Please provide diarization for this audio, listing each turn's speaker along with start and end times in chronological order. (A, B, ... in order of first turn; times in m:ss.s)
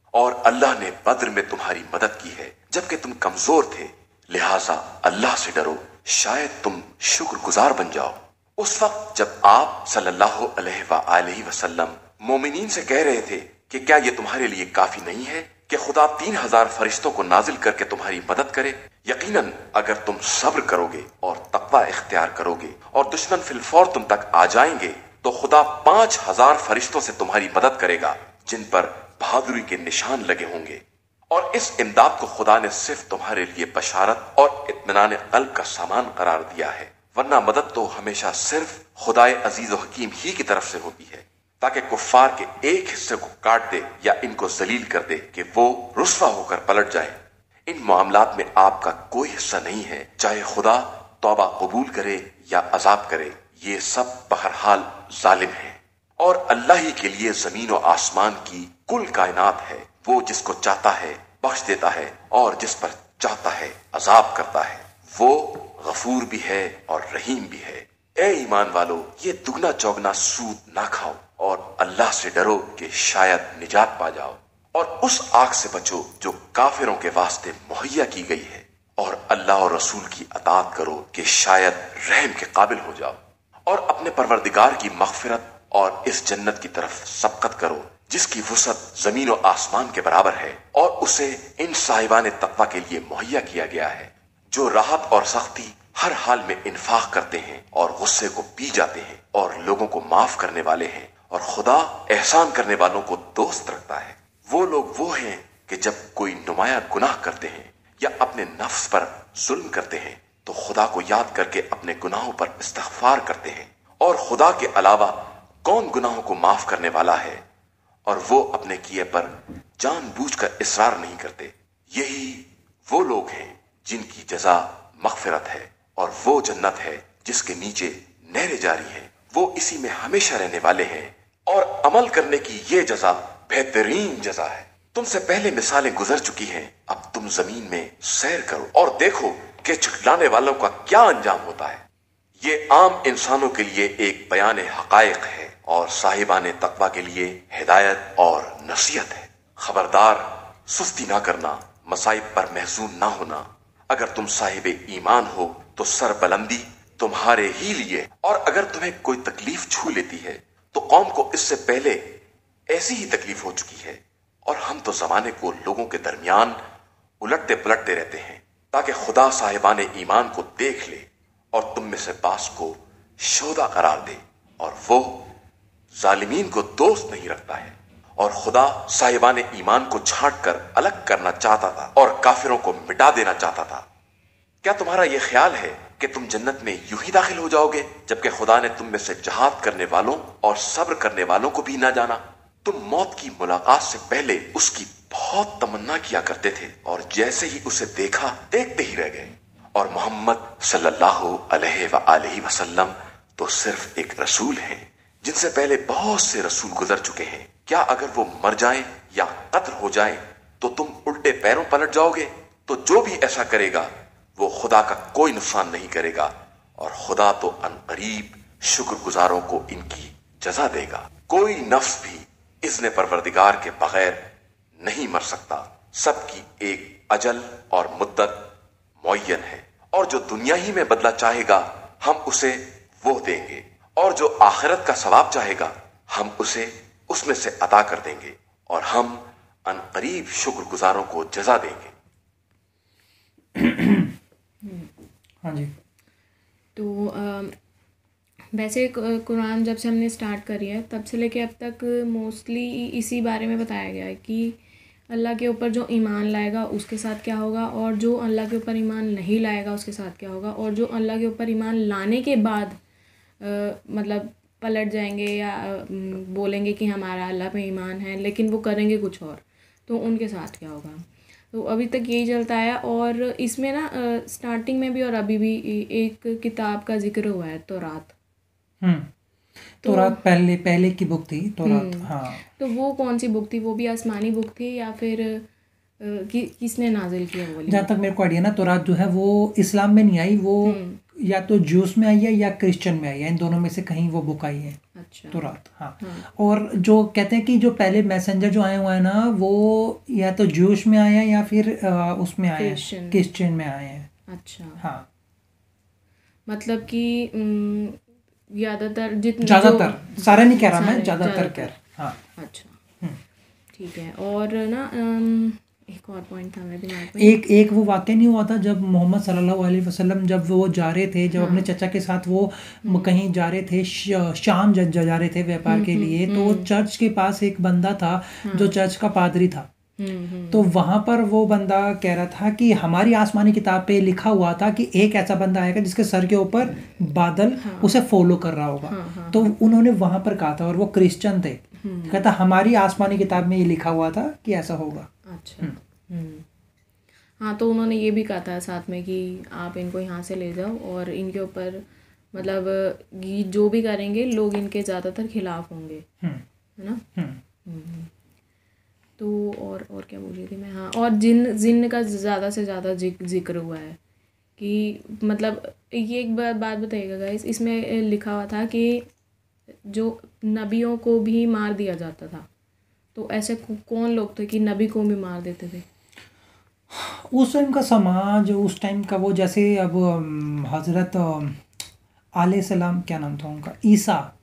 0:00.1-1:57.4 A
1:58.1-2:21.8 A
2:22.4-2:42.2 A
2:42.7-2:46.6 A
2:47.2-2:55.3 A
2:56.0-3:03.8 A
3:04.6-3:44.3 A
3:44.8-3:48.5 A
3:49.0-4:01.9 A
4:03.6-4:04.1 B
4:04.6-4:04.9 C
4:05.4-4:05.7 B
4:06.8-4:07.6 C
4:08.5-4:22.8 C
4:23.4-4:38.2 C
4:38.8-4:39.1 B
4:39.8-4:42.4 B
4:39.8-4:40.2 C
4:41.6-4:45.5 C
4:46.0-4:47.9 C
4:47.7-4:54.8 B
4:50.6-4:51.0 C
4:55.0-4:55.5 C
4:55.3-5:04.1 B
4:56.0-4:56.3 C
5:02.6-5:03.2 C
5:04.3-5:04.8 C
5:04.8-5:05.1 B
5:06.5-5:11.8 C
5:09.4-5:12.2 B
5:12.4-5:12.8 C
5:13.7-5:17.4 C
5:17.1-5:29.7 B
5:21.3-5:21.7 C
5:22.8-5:23.2 C
5:25.7-5:26.7 C
5:28.4-5:28.8 C
5:30.0-5:30.7 C
5:30.5-5:45.8 B
5:37.6-5:38.0 C
5:38.9-5:39.5 C
5:41.8-5:42.3 C
5:45.3-5:46.4 C
5:47.4-5:56.1 C
5:56.8-5:57.0 C
5:57.2-5:57.4 B
5:57.6-5:58.1 C
5:59.2-6:04.0 C
6:04.6-6:09.1 C
6:09.8-6:12.5 C
6:13.1-6:15.8 C
6:16.9-6:21.6 B
6:22.4-6:24.3 B